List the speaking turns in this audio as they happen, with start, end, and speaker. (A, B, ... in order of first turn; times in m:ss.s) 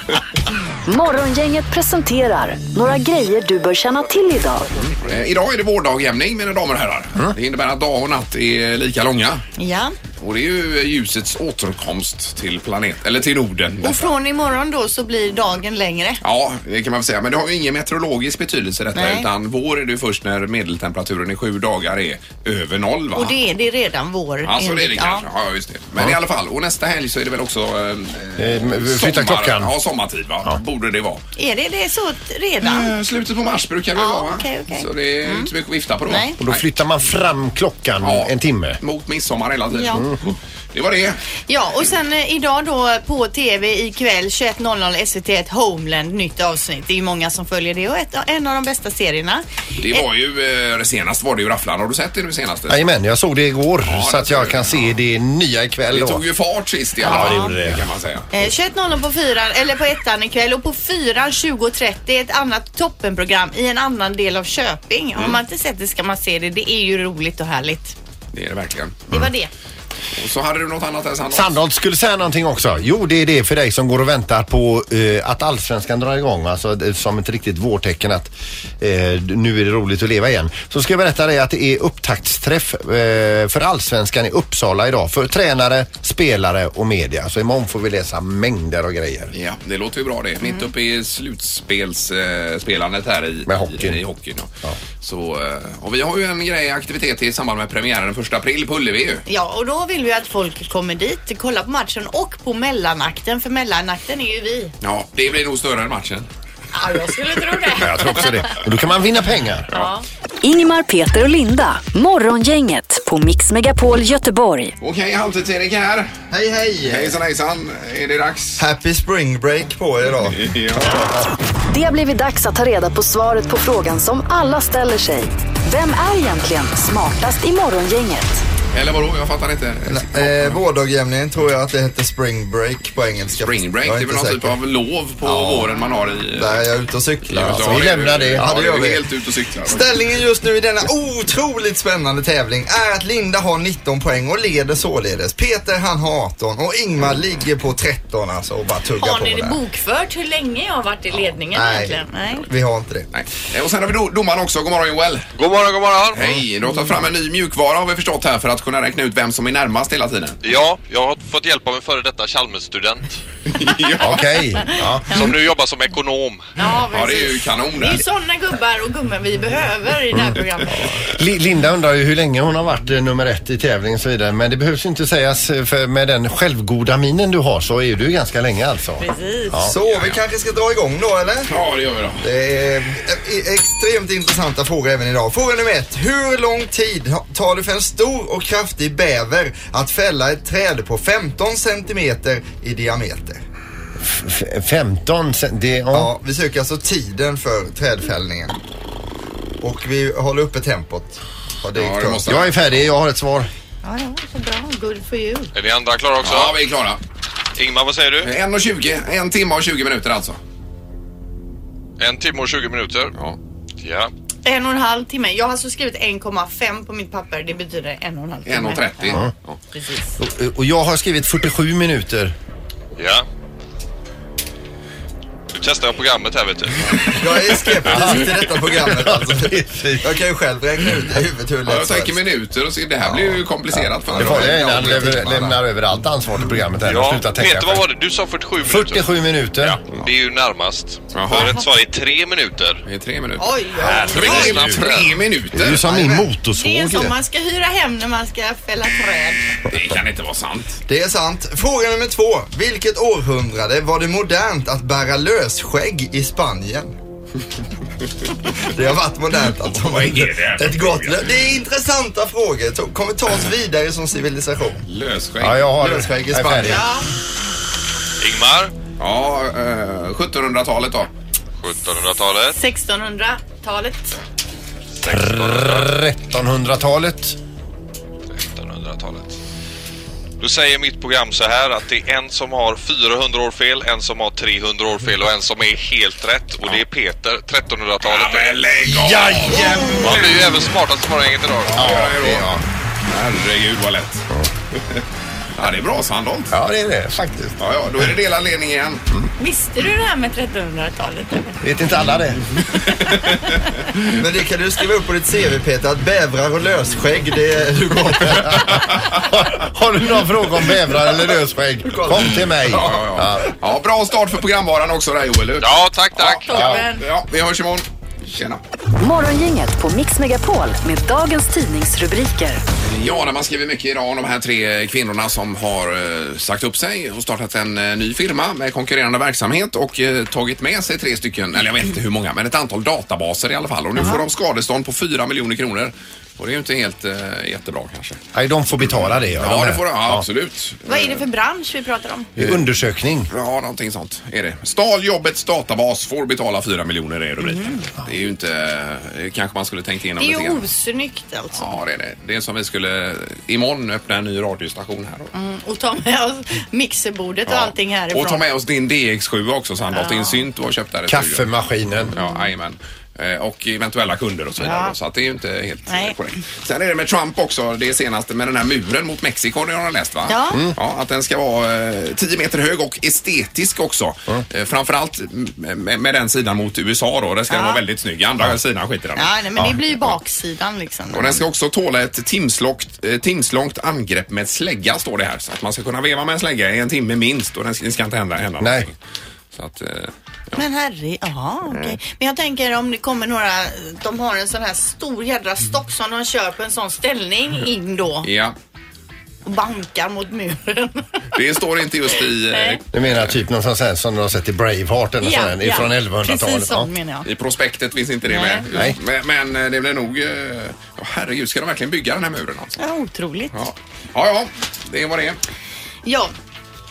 0:00.8-0:04.9 A
0:05.0-0:09.4 B
0:09.6-0:10.0 C
0:10.2-0:14.1 B
0:13.8-0:16.2 C
0:16.2-0:23.4 B
0:18.9-0:19.3 C
0:23.1-0:25.2 C
0:24.4-0:31.2 B
0:28.4-0:29.7 D
0:31.4-0:32.9 C
0:32.6-0:36.6 B
0:34.0-0:35.5 C
0:36.0-0:36.4 C
0:36.4-0:38.8 D
0:38.0-0:41.2 B
0:39.7-0:40.0 C
0:41.5-0:50.0 C
0:49.8-0:52.8 B
0:52.7-0:56.2 D
0:53.8-0:55.0 B
0:55.9-0:58.3 B
0:57.0-0:57.8 D
0:57.0-0:57.6 C
0:58.3-1:08.0 C
1:08.3-1:09.3 B
1:09.1-1:09.5 C
1:10.2-1:11.5 B
1:11.3-1:29.3 D
1:29.3-1:34.5 B
1:33.5-1:34.0 D
1:35.0-1:39.2 B
1:39.3-1:44.7 C
1:44.8-1:46.3 B
1:46.7-1:48.6 C
1:47.8-1:49.7 D
1:49.7-1:50.0 C
1:50.4-1:54.7 A
1:54.8-1:56.1 B
1:56.3-1:57.2 E
1:56.8-1:58.6 B
1:58.6-2:00.4 E
2:00.3-2:01.1 B
2:01.7-2:08.4 A
2:08.7-2:10.6 B
2:09.9-2:14.5 E
2:13.4-2:16.6 B
2:15.2-2:15.7 E
2:16.3-2:19.1 E
2:17.2-2:19.9 B
2:17.4-2:18.5 D
2:19.6-2:29.6 E
2:29.0-2:32.4 C
2:31.5-2:33.1 E
2:33.1-2:35.3 B
2:35.3-2:36.2 F
2:36.1-2:40.4 B
2:40.4-2:43.2 F
2:43.5-2:44.3 B
2:44.0-2:45.4 D
2:44.6-2:45.3 C
2:45.1-2:46.5 F
2:46.6-2:51.1 C
2:46.9-2:48.0 B
2:50.9-2:59.7 D
2:59.0-2:59.6 C
2:59.6-3:01.5 E
2:59.8-3:00.2 B
3:01.5-3:02.2 B
3:02.2-3:13.4 E
3:14.0-3:16.1 D
3:15.9-3:18.6 E
3:19.6-3:22.4 E
3:21.7-3:22.6 B
3:22.2-3:23.5 D
3:23.8-3:25.5 C
3:25.5-3:26.6 F
3:26.2-3:27.0 B
3:27.6-3:28.3 F
3:28.2-3:30.4 B
3:32.0-3:33.1 F
3:33.8-3:34.1 F
3:34.4-3:39.2 C
3:38.5-3:39.6 B
3:39.7-3:40.2 C
3:40.2-3:42.3 D
3:43.0-3:43.2 F
3:45.5-3:47.2 F
3:47.2-3:52.2 E
3:47.8-3:50.2 D
3:51.6-3:55.1 B
3:53.0-3:53.4 E
3:54.1-3:55.6 E
3:54.2-3:57.8 D
3:56.8-3:59.1 F
3:58.6-3:59.8 D
3:59.6-4:02.8 F
4:01.1-4:01.5 B
4:01.4-4:01.6 C
4:02.8-4:03.6 B
4:03.4-4:04.7 C
4:03.8-4:05.1 F
4:04.1-4:05.8 B
4:04.2-4:04.9 D
4:05.5-4:07.1 D
4:05.7-4:06.3 E
4:06.5-4:09.6 C
4:09.7-4:10.8 B
4:10.9-4:16.9 E
4:18.6-4:24.8 E
4:19.6-4:21.4 B
4:24.9-4:25.7 B
4:25.4-4:26.8 D
4:25.8-4:26.9 E
4:26.6-4:27.0 C
4:28.2-4:28.7 F
4:29.0-4:31.1 B
4:31.6-4:32.6 F
4:32.5-4:34.2 C
4:35.0-4:35.9 F
4:35.0-4:37.4 D
4:38.3-4:39.4 F
4:40.4-4:48.6 F
4:48.0-4:50.4 B
4:48.8-4:50.5 D
4:50.0-4:51.8 F
4:51.7-4:52.5 B
4:51.7-4:52.6 D
4:53.0-4:54.3 B
4:55.6-4:56.6 B
4:56.5-4:57.6 D
4:57.6-4:59.0 B
4:59.4-5:01.6 C
5:01.6-5:02.5 D
5:02.7-5:03.8 B
5:04.1-5:08.6 E
5:08.2-5:13.5 D
5:08.5-5:09.2 B
5:11.9-5:12.8 E
5:12.6-5:18.6 B
5:15.6-5:16.7 F
5:16.2-5:17.0 C
5:19.0-5:22.6 A
5:22.8-5:38.2 B
5:38.3-5:40.2 D
5:39.2-5:41.2 B
5:40.8-5:42.3 C
5:42.4-5:42.6 B
5:42.4-5:43.3 D
5:43.3-5:50.6 B
5:47.4-5:47.8 C
5:50.2-5:51.6 C
5:51.6-5:55.3 B
5:55.3-5:58.4 C
5:57.5-6:01.4 B
5:59.9-6:00.4 C
6:01.1-6:02.1 D
6:02.1-6:19.3 B
6:04.6-6:04.9 C
6:05.9-6:06.1 C
6:10.3-6:10.6 C
6:17.5-6:17.8 C
6:19.2-6:21.4 C
6:21.1-6:29.0 B
6:28.6-6:28.9 D
6:29.5-6:30.6 B
6:30.5-6:38.3 C
6:38.2-6:38.5 B
6:39.4-6:41.1 C
6:41.3-6:43.3 B
6:42.5-6:42.8 C
6:42.9-6:46.9 D
6:45.2-6:47.3 C
6:47.2-6:52.8 B
6:48.3-6:48.6 C
6:52.8-6:53.5 C
6:53.5-6:55.4 B
6:56.0-6:56.3 C